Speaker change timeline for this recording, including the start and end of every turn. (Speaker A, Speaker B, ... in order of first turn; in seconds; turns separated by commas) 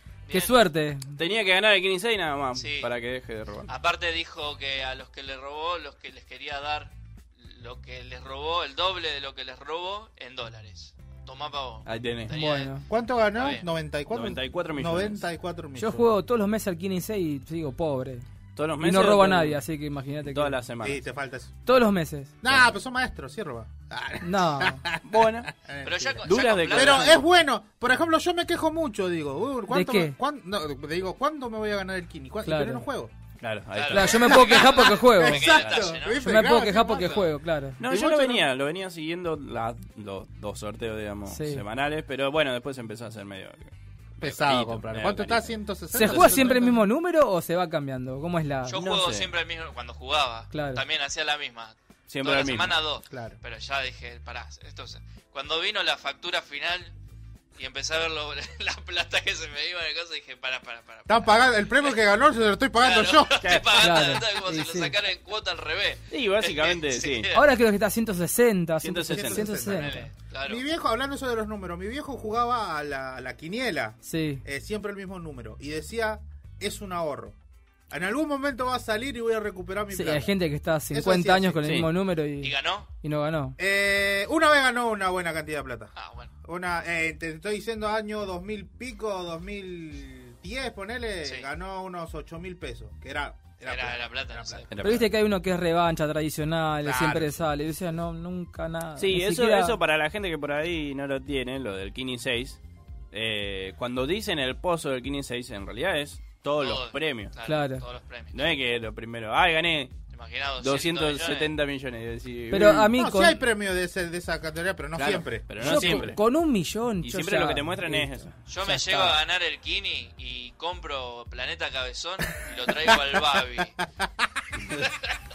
Speaker A: 0.3-0.5, Speaker B: 0.3-1.1, Speaker C: 1.2-3.7, Speaker A: 2.5-2.9, Speaker A: 3.7-12.7, Speaker C: 11.9-12.3, Speaker B: 12.3-12.8, Speaker D: 12.9-16.1, Speaker A: 13.4-13.6, Speaker C: 14.1-15.2, Speaker B: 15.8-18.2, Speaker C: 18.6-19.6, Speaker B: 18.8-20.6, Speaker C: 20.2-21.0, Speaker D: 20.8-21.6, Speaker B: 21.7-22.3, Speaker D: 22.4-33.1, Speaker B: 24.2-24.8, Speaker C: 25.0-25.5, Speaker A: 25.8-27.2, Speaker C: 26.2-27.2, Speaker B: 29.7-30.2, Speaker B: 32.5-32.9, Speaker C: 33.4-34.4, Speaker A: 33.7-36.2, Speaker B: 33.9-35.5, Speaker D: 34.1-37.3, Speaker B: 36.1-37.8, Speaker C: 37.8-43.7, Speaker D: 37.8-38.5, Speaker B: 41.3-41.6, Speaker D: 44.2-46.8, Speaker C: 44.2-46.6, Speaker B: 45.9-48.8, Speaker A: 48.7-56.9, Speaker C: 48.8-49.3, Speaker B: 50.5-50.8, Speaker C: 52.1-52.8, Speaker D: 53.1-53.4, Speaker A: 57.6-62.0, Speaker D: 61.1-63.5, Speaker A: 62.8-67.4, Speaker C: 63.4-63.9, Speaker B: 63.8-64.9, Speaker C: 66.1-67.3, Speaker B: 67.3-70.1, Speaker C: 68.8-69.5, Speaker D: 69.0-77.4, Speaker A: 69.8-70.6, Speaker B: 74.0-74.4, Speaker D: 77.9-80.4, Speaker B: 79.9-83.6, Speaker D: 80.9-81.7, Speaker C: 81.6-81.9, Speaker A: 82.4-82.9, Speaker D: 83.6-85.9, Speaker A: 86.0-86.3, Speaker D: 86.4-94.7, Speaker A: 93.7-94.7, Speaker C: 94.7-95.1, Speaker B: 94.8-99.8, Speaker D: 96.8-97.4, Speaker C: 99.0-102.6, Speaker C: 103.1-107.3, Speaker A: 106.6-108.3, Speaker B: 107.5-107.8, Speaker C: 108.3-110.0, Speaker A: 110.1-111.5, Speaker C: 110.6-112.9, Speaker B: 112.5-113.4, Speaker D: 112.5-116.1, Speaker C: 115.0-116.2, Speaker B: 115.6-118.1, Speaker C: 117.0-118.4, Speaker A: 118.5-123.7, Speaker D: 118.7-119.2, Speaker D: 122.9-124.1